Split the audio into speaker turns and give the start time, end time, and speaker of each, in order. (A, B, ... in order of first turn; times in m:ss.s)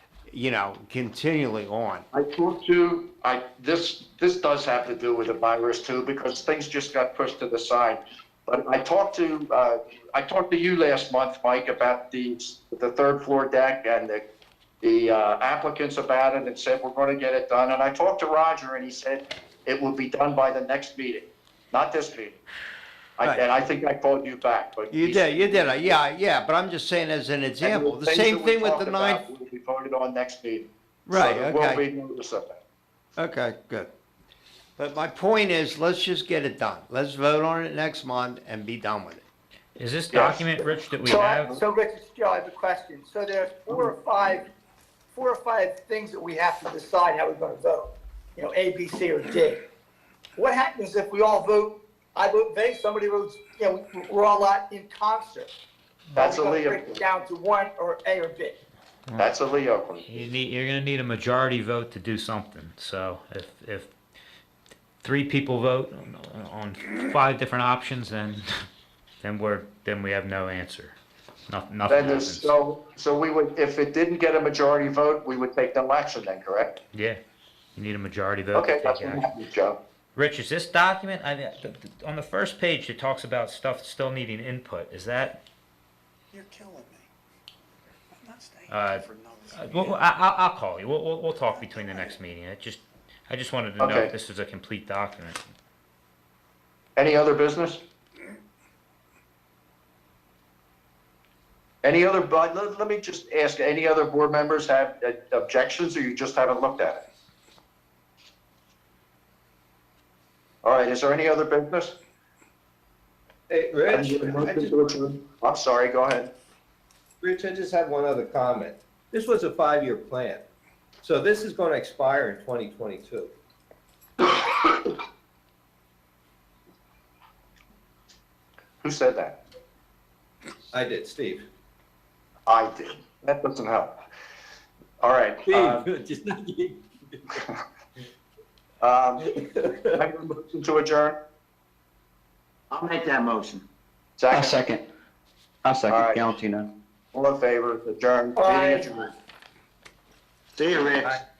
0:00.3-0:02.0 A
0:02.1-0:14.2 B
0:14.8-0:22.4 B
0:23.2-0:26.0 B
0:24.9-0:29.2 A
0:27.6-0:32.6 B
0:31.1-0:31.8 A
0:33.2-0:33.9 A
0:34.8-0:39.2 A
0:39.8-0:41.6 C
0:40.1-0:40.4 B
0:40.4-0:44.4 D
0:45.1-0:49.6 D
0:50.4-0:55.5 D
0:56.1-0:57.0 B
0:56.2-0:58.6 D
0:59.2-1:00.2 B
1:00.0-1:03.9 C
1:05.0-1:08.6 C
1:09.2-1:11.0 C
1:11.5-1:12.5 C
1:11.9-1:16.8 B
1:16.9-1:17.2 C
1:17.7-1:19.2 C
1:18.5-1:19.8 B
1:20.2-1:25.4 C
1:26.3-1:27.0 E
1:28.2-1:30.0 E
1:28.7-1:35.4 C
1:31.6-1:32.1 E
1:33.8-1:34.1 B
1:37.0-1:37.8 B
1:41.8-1:47.0 B
1:50.6-1:52.0 B
1:53.5-1:54.9 F
1:53.9-1:56.3 B
1:57.2-2:00.4 F
2:01.0-2:03.3 F
2:08.8-2:09.4 B
2:10.7-2:11.4 F
2:12.4-2:14.0 B
2:15.0-2:15.8 B
2:15.4-2:16.8 F
2:18.8-2:19.3 B
2:19.2-2:20.0 F
2:19.9-2:21.2 B
2:22.7-2:23.6 G
2:24.2-2:24.6 B
2:24.3-2:24.8 G
2:25.6-2:26.7 G
2:25.9-2:26.3 B
2:27.1-2:29.1 B
2:28.4-2:28.8 D
2:30.6-2:31.2 G